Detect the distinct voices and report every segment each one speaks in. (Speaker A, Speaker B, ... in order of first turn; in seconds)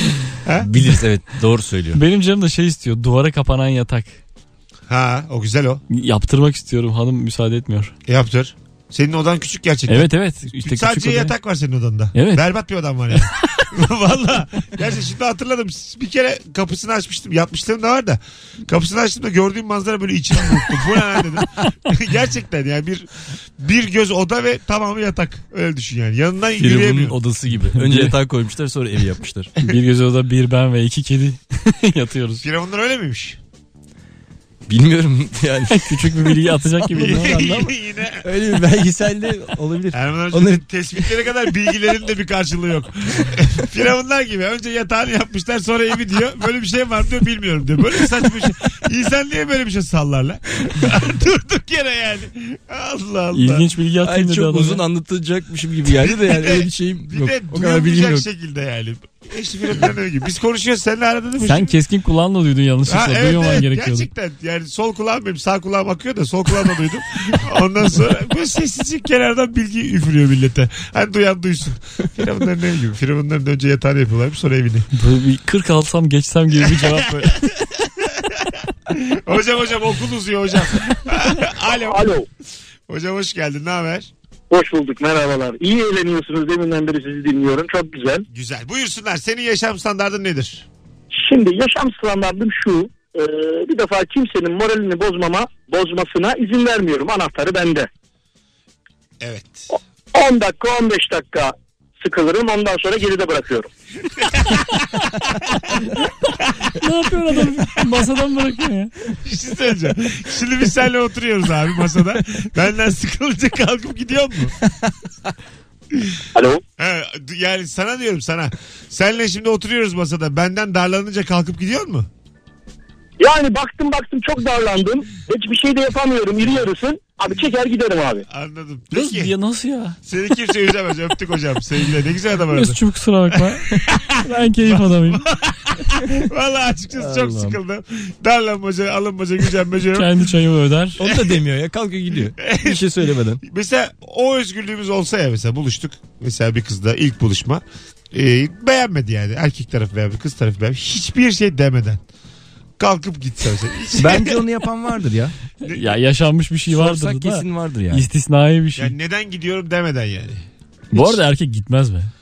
Speaker A: 0.4-0.7, 4.9-5.8, 8.1-27.2, 32.4-33.4, 36.9-38.3, 39.9-53.7, 55.9-61.8, 62.9-74.9, 76.6-82.1, 82.9-84.1, 88.3-90.7, 99.2-99.7, 104.2-104.8, 105.5-105.8, 109.2-114.6, 116.8-122.1, 128.3-129.3, 130.0-132.8, 133.7-140.2, 141.0-141.4, 142.4-142.9, 143.4-152.0, 152.8-154.4, 155.6-156.0, 158.8-161.2
Speaker B: 0.6-2.0, 26.6-29.5, 34.7-36.4, 36.9-37.5, 38.2-40.6, 54.0-58.2, 137.0-137.6, 141.0-143.4, 154.0-155.3, 156.7-158.1
Speaker C: 1.9-4.2, 5.9-7.9, 9.9-11.3, 12.2-12.4, 27.5-28.2, 29.6-32.4, 35.7-37.7, 53.3-54.8, 61.4-64.1, 75.0-77.4, 106.8-109.0, 128.9-130.0, 132.5-135.2, 139.9-141.0, 155.7-158.9, 160.9-162.1
Speaker D: 81.8-82.3, 84.5-88.2, 91.1-97.9, 99.7-103.7, 116.3-116.6, 123.2-128.2